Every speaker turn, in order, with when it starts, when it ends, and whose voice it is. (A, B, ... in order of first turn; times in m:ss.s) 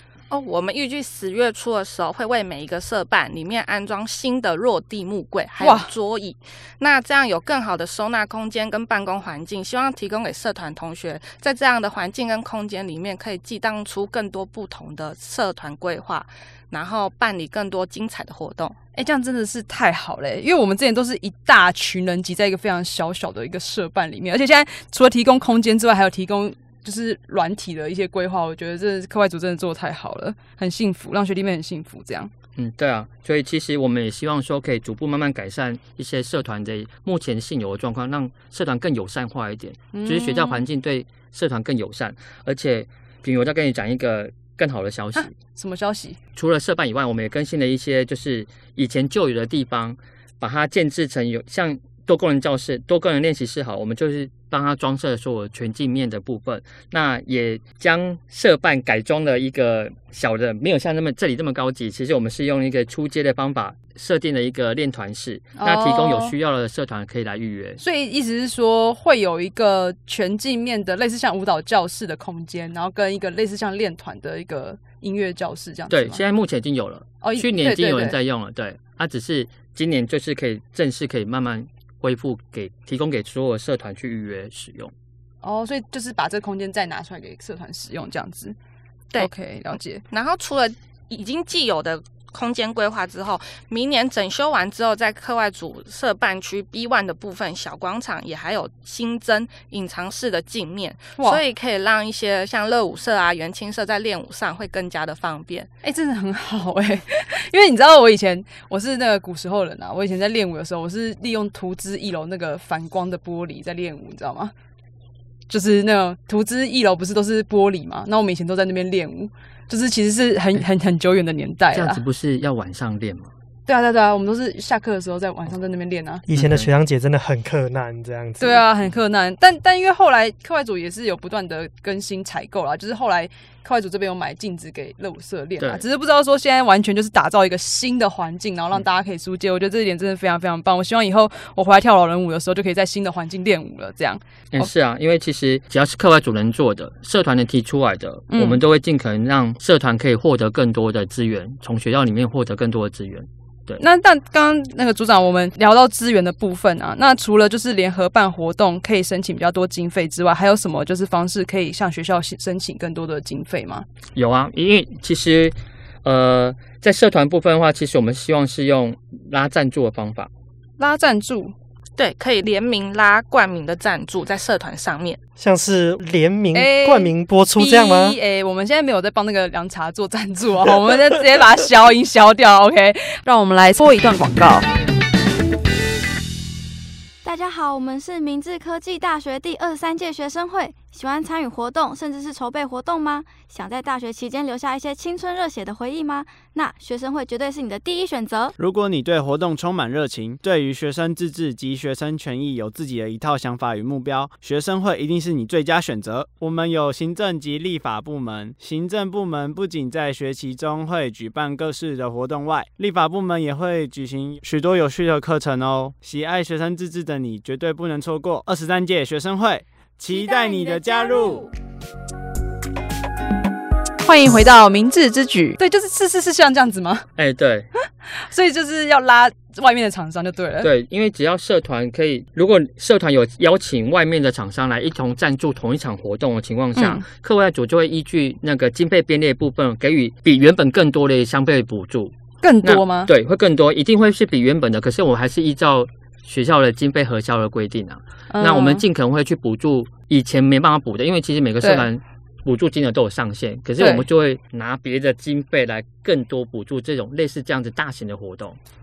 0:00.3-0:18.8 A
0:05.6-0:05.9 B
0:19.0-0:32.3 B
0:32.6-0:45.3 C
0:39.9-0:40.6 B
0:45.2-0:46.2 B
0:46.4-1:07.8 C
1:05.6-1:06.3 B
1:07.8-1:16.2 B
1:15.9-1:24.9 C
1:17.2-1:18.2 B
1:25.4-1:28.6 B
1:29.2-1:30.0 B
1:30.1-1:45.7 A
1:45.8-1:54.5 B
1:55.5-2:02.0 B
2:01.7-2:03.3 C
2:03.7-2:06.2 B
2:06.3-2:08.6 D
2:06.3-2:06.7 C
2:08.4-2:24.7 B
2:24.5-2:33.8 C
2:28.3-2:28.6 B
2:33.8-2:43.9 B
2:44.2-2:50.3 C
2:50.8-2:51.5 B
2:52.0-2:55.2 A
2:55.4-2:58.2 D
2:56.6-3:04.7 B
3:07.2-3:18.5 E
3:18.6-3:41.5 F
3:40.1-3:41.5 E
3:44.0-3:47.1 B
3:47.2-3:47.7 C
3:48.1-3:50.7 B
3:50.6-4:18.6 C
3:56.8-3:57.0 B
4:02.4-4:03.1 B
4:08.3-4:08.8 B
4:11.6-4:11.9 B
4:13.8-4:14.0 B